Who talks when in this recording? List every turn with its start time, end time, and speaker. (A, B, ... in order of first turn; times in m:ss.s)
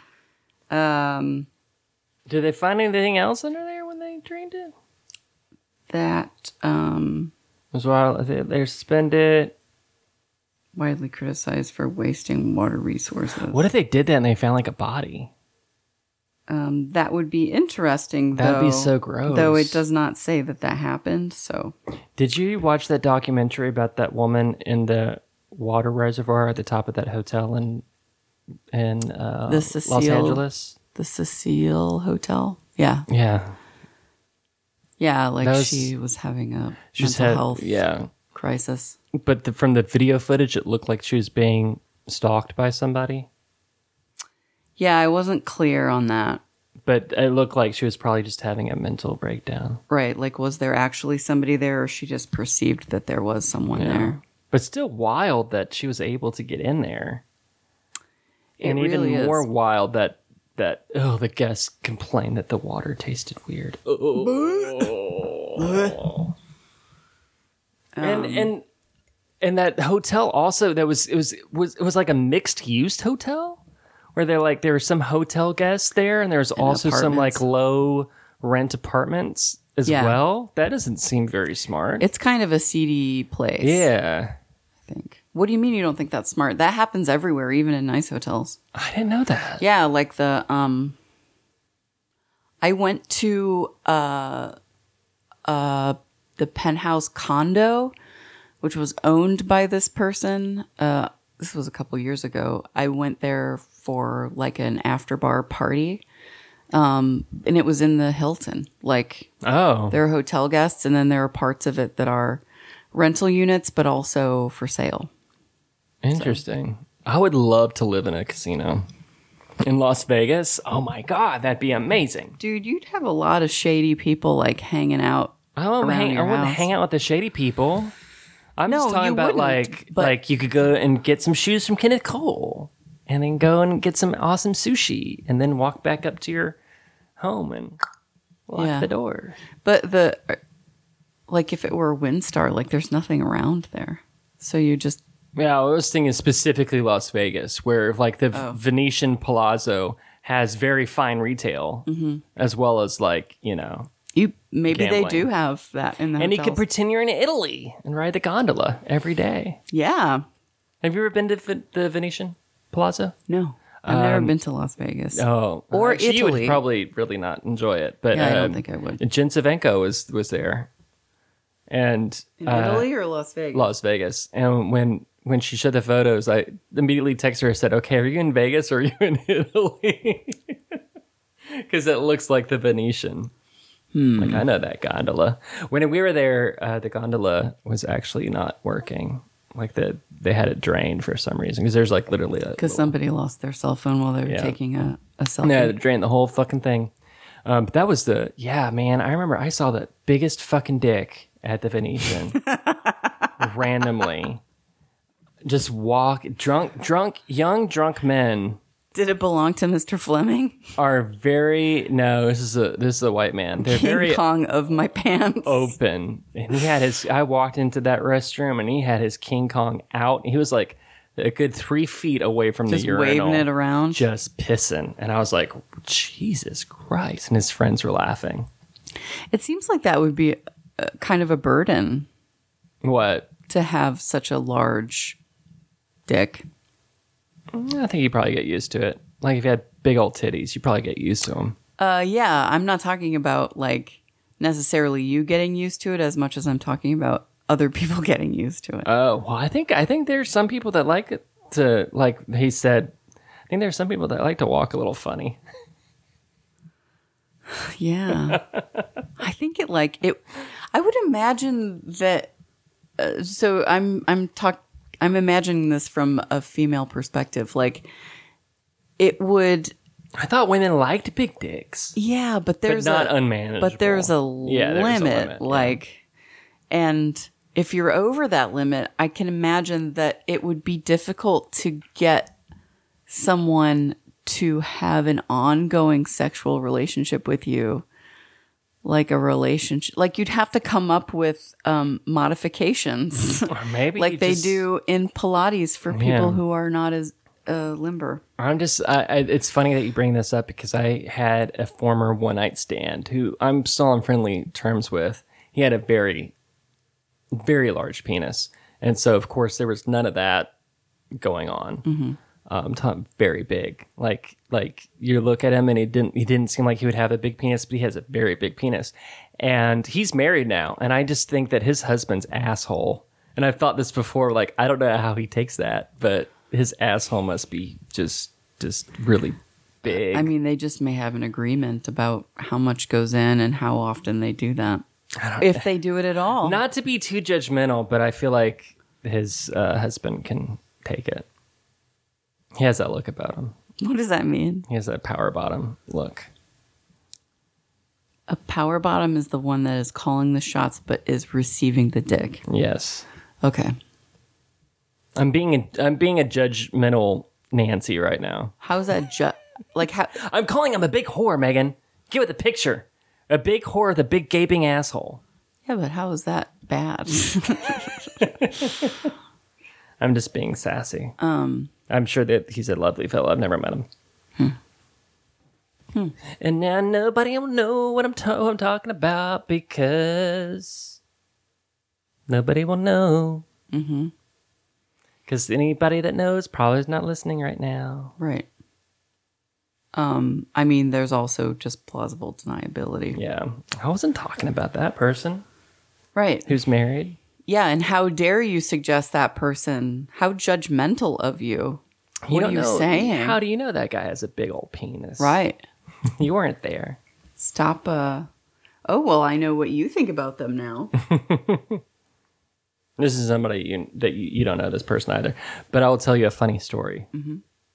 0:00.7-0:01.5 A
0:02.3-0:04.7 B
0:05.9-0:07.3 A
0:07.7-0:09.5 B
0:10.7-0:13.6 A
0:13.5-0:15.3 B
0:16.5-0:21.7 A
0:18.4-0:19.8 B
0:22.2-0:27.8 B
0:28.7-0:30.8 B
0:29.5-0:30.4 A
0:30.9-0:33.1 A
0:33.1-0:33.6 B
0:35.0-0:39.0 A
0:35.4-0:35.9 B
0:36.9-0:38.1 B
0:39.1-0:43.3 B
0:44.8-0:46.4 A
0:46.8-0:49.8 B
0:49.9-0:54.2 A
0:53.7-0:57.2 B
0:58.6-0:59.4 A
0:58.6-1:06.3 B
1:04.2-1:04.9 A
1:05.6-1:06.0 A
1:07.9-1:08.5 A
1:08.0-1:08.6 B
1:09.4-1:13.6 B
1:14.1-1:22.0 B
1:16.6-1:17.4 A
1:19.8-1:20.2 A
1:22.0-1:23.9 A
1:23.6-1:24.4 B
1:24.9-1:28.6 A
1:28.7-1:29.6 B
1:29.6-1:31.0 A
1:32.6-1:34.6 A
1:35.4-1:37.9 A
1:38.6-1:46.0 A
1:46.7-1:49.3 A
1:49.4-1:50.0 B
1:49.9-1:52.4 A
1:52.9-1:55.1 A
1:56.0-1:58.8 B
1:56.1-1:56.4 A
1:59.6-2:02.4 B
2:02.4-2:06.7 A
2:05.6-2:07.9 B
2:08.6-2:16.6 B
2:08.6-2:10.1 A
2:17.2-2:17.8 B
2:18.5-2:19.4 B
2:18.6-2:18.9 A
2:19.6-2:20.4 A
2:21.3-2:25.0 A
2:25.3-2:33.9 B
2:28.3-2:28.6 A
2:31.8-2:32.2 A
2:34.1-2:36.6 A
2:34.7-2:35.3 B
2:36.2-2:39.6 B
2:39.7-2:40.2 A
2:40.8-2:43.1 B
2:43.3-2:46.6 A
2:43.8-2:44.4 B
2:45.1-2:50.7 B
2:48.1-2:49.0 A
2:51.7-2:52.9 B
2:52.4-2:53.7 A
2:53.5-3:00.8 B
3:01.5-3:03.3 B
3:03.9-3:04.4 A
3:04.2-3:12.9 B
3:12.6-3:15.7 A
3:14.2-3:14.6 B
3:15.4-3:16.9 B
3:17.4-3:22.4 B
3:22.4-3:23.3 A
3:23.4-3:24.4 B
3:25.4-3:28.6 B
3:28.9-3:30.7 A
3:30.8-3:34.2 B
3:33.6-3:35.7 A
3:35.4-3:48.5 B
3:42.7-3:44.0 A
3:49.3-3:52.1 A
3:52.8-3:53.3 B
3:53.5-3:55.2 A
3:56.1-3:56.4 A
3:57.5-4:01.6 B
4:01.8-4:08.9 A
4:08.8-4:12.9 B
4:13.5-4:15.4 B
4:17.5-4:18.4 A
4:18.3-4:18.8 B
4:19.2-4:22.3 A
4:23.0-4:27.9 A
4:29.0-4:29.7 A
4:30.2-4:32.0 B
4:32.0-4:36.0 A
4:32.6-4:35.8 B
4:36.7-4:42.3 A
4:43.1-4:47.8 A
4:48.8-4:58.2 A
4:53.5-4:54.6 B
4:55.9-4:56.4 B
4:58.4-5:06.3 B
5:07.3-5:10.5 B
5:11.2-5:11.8 B
5:11.8-5:12.2 A
5:12.4-5:30.3 B
5:30.1-5:34.8 A
5:35.2-5:35.7 B
5:35.4-5:36.6 A
5:36.4-5:41.2 B
5:42.6-5:43.6 B
5:43.8-5:44.7 A
5:44.7-5:46.3 B
5:48.3-5:52.4 A
5:52.5-5:53.0 B
5:53.4-5:53.8 A
5:55.2-5:58.5 B
5:58.6-6:00.1 A
6:00.2-6:05.2 B
6:05.6-6:08.2 A
6:08.2-6:09.1 B
6:10.0-6:11.2 B
6:11.2-6:11.7 A
6:11.9-6:13.9 B
6:16.4-6:21.0 B
6:22.3-6:23.4 B
6:23.7-6:24.1 A
6:25.2-6:28.1 B
6:28.2-6:28.5 A
6:29.9-6:33.2 A
6:33.1-6:35.4 B
6:36.1-6:36.5 A
6:36.5-6:37.2 B
6:37.5-6:43.4 A
6:42.3-6:45.4 B
6:45.2-6:45.6 A
6:46.2-6:47.0 B
6:47.4-6:48.3 A
6:48.9-6:50.9 A
6:51.0-6:51.8 B
6:53.0-6:57.1 B
6:57.1-6:57.4 A